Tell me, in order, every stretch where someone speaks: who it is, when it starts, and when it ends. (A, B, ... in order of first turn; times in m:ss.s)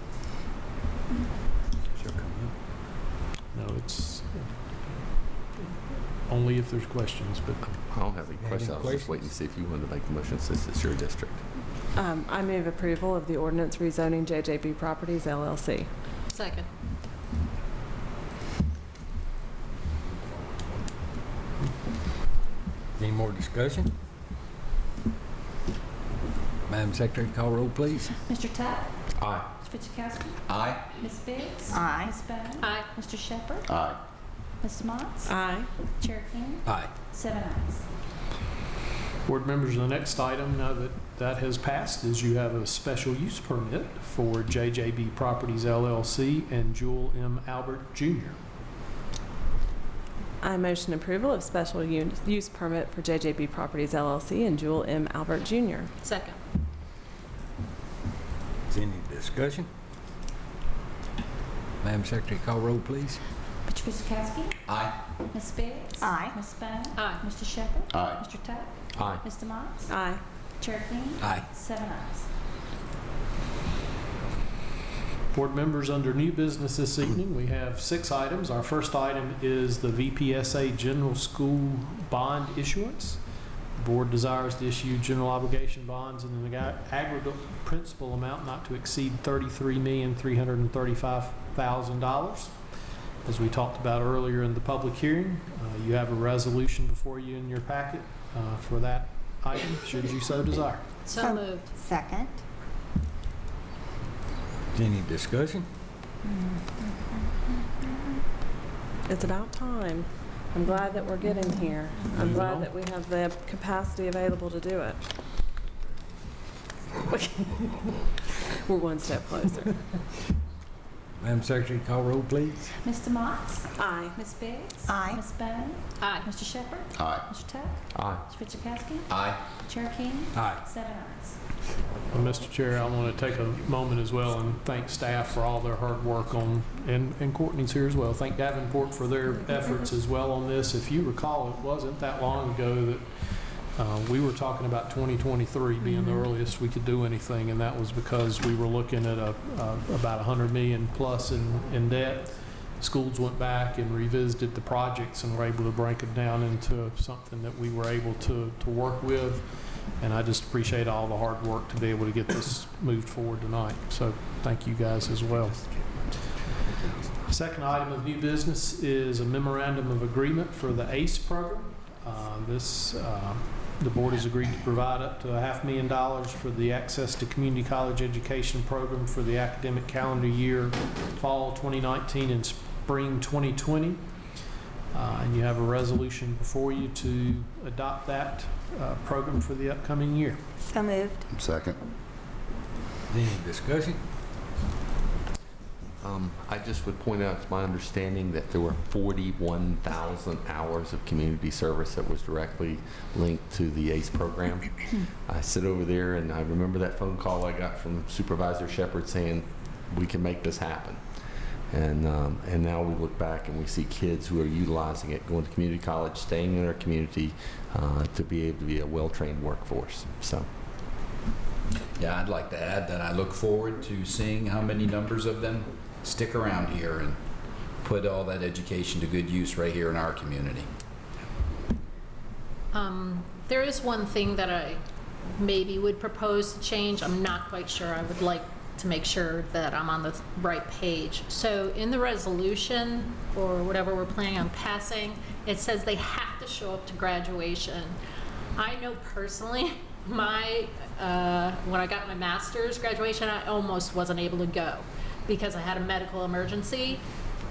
0:01.9-0:02.5 A
0:03.5-0:07.7 B
0:07.7-0:11.4 C
0:08.4-0:09.3 A
0:11.9-0:15.9 D
0:16.3-0:16.7 E
0:23.0-0:23.9 A
0:26.7-0:28.2 A
0:28.2-0:33.7 F
0:29.2-0:29.5 C
0:30.5-0:30.8 G
0:31.7-0:32.1 H
0:32.6-0:32.9 E
0:33.7-0:34.0 G
0:34.6-0:35.3 F
0:35.2-0:35.7 D
0:36.0-0:37.8 F
0:36.6-0:36.9 A
0:39.2-0:48.4 B
0:50.4-0:55.9 D
0:56.0-0:56.4 E
0:58.7-0:59.7 A
1:01.8-1:03.2 A
1:03.6-1:04.6 F
1:04.7-1:04.9 G
1:05.3-1:09.9 F
1:06.0-1:06.4 H
1:06.9-1:07.2 E
1:07.9-1:08.2 G
1:09.0-1:09.2 C
1:09.9-1:10.2 D
1:10.6-1:12.3 F
1:11.2-1:11.5 A
1:15.3-1:23.2 B
1:23.8-1:32.5 B
1:33.2-1:40.8 B
1:41.0-1:41.7 E
1:41.2-1:42.3 H
1:44.7-1:45.7 A
1:49.1-1:55.0 D
1:52.2-1:52.7 B
1:57.1-1:57.8 D
1:58.6-1:59.8 D
2:01.2-2:02.7 A
2:02.8-2:11.4 F
2:03.7-2:04.2 D
2:04.9-2:05.2 H
2:06.0-2:06.3 E
2:07.0-2:07.2 G
2:07.9-2:08.2 C
2:09.1-2:09.4 G
2:10.3-2:10.6 A
2:12.1-2:23.1 B
2:23.8-2:45.6 B
2:47.2-3:04.0 B
3:04.9-3:10.4 B
3:10.7-3:11.2 H
3:11.3-3:11.8 G
3:13.1-3:14.0 A
3:16.0-3:31.0 C
3:31.7-3:40.5 C
3:42.0-3:47.1 G
3:47.8-3:50.6 G
3:52.7-3:54.8 E
3:55.4-4:08.0 E
4:08.6-4:17.0 E